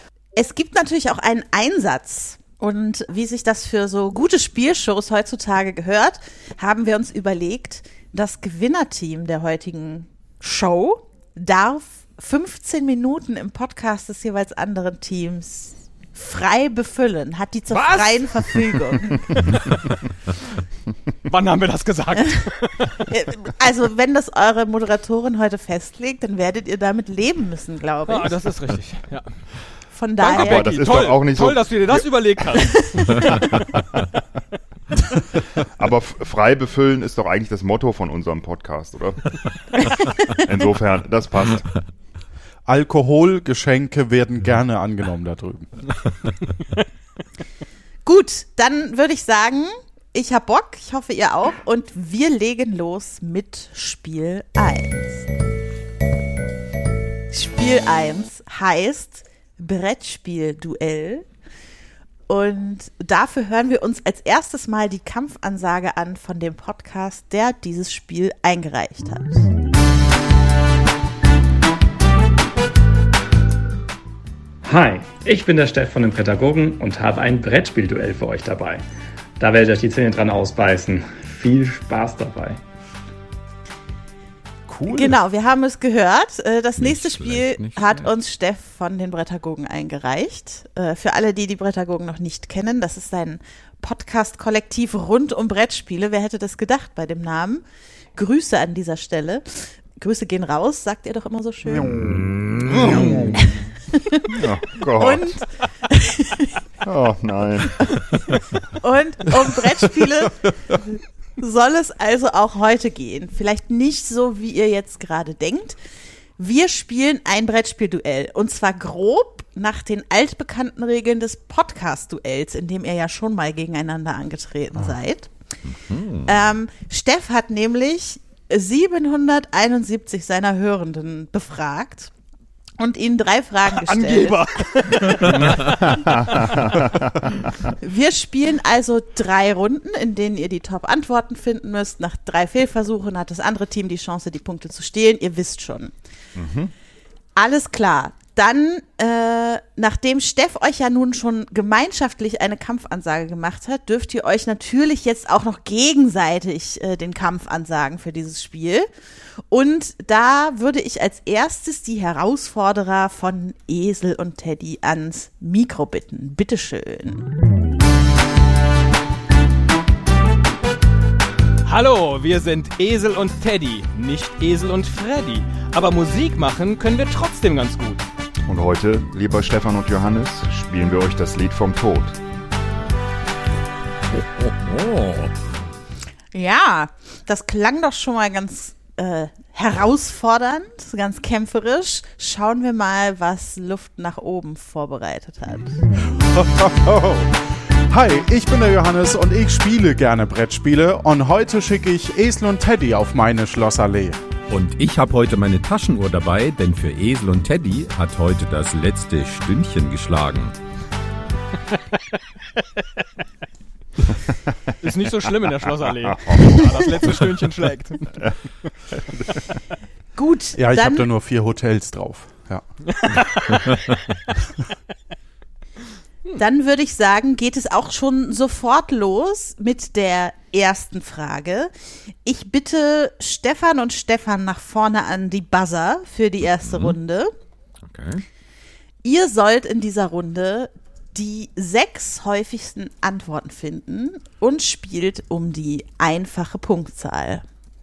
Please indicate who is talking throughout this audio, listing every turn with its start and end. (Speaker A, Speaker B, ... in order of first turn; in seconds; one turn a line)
Speaker A: 0.3-19.2
Speaker B: 17.7-18.6
Speaker C: 19.4-19.8
Speaker B: 21.2-23.1
Speaker A: 23.1-28.4
Speaker B: 28.1-29.3
Speaker A: 29.9-30.8
Speaker B: 30.2-33.6
Speaker D: 30.3-33.8
Speaker D: 35.8-41.7
Speaker E: 42.6-45.9
Speaker A: 48.0-55.2
Speaker A: 57.3-61.2
Speaker A: 62.3-69.5
Speaker F: 74.6-78.8
Speaker F: 79.4-82.6
Speaker E: 84.7-85.2
Speaker A: 84.9-97.6
Speaker C: 86.8-88.1
Speaker A: 98.1-101.9
Speaker D: 101.7-103.5
Speaker A: 103.3-104.3
Speaker D: 104.3-105.4
Speaker A: 105.0-106.5
Speaker D: 106.8-108.0
Speaker A: 108.8-115.8
Speaker A: 116.4-125.3
Speaker C: 125.7-126.3
Speaker A: 126.2-132.1
Speaker A: 132.8-134.4
Speaker B: 133.8-136.9
Speaker D: 135.9-137.7
Speaker A: 137.8-145.9
Speaker D: 146.3-146.7
Speaker A: 147.3-158.9
Speaker A: 159.5-167.3
Speaker B: 171.6-178.1
Speaker D: 178.5-182.2
Speaker C: 184.1-185.3
Speaker A: 186.3-195.8
Speaker E: 196.1-204.2
Speaker C: 204.5-210.5
Speaker B: 214.8-218.3
Speaker D: 215.8-217.1
Speaker D: 218.9-219.4
Speaker A: 220.2-221.1
Speaker E: 220.5-222.6
Speaker B: 222.9-223.7
Speaker A: 226.4-231.7
Speaker A: 232.2-237.3
Speaker C: 236.7-237.0
Speaker C: 237.8-238.2
Speaker A: 239.0-247.4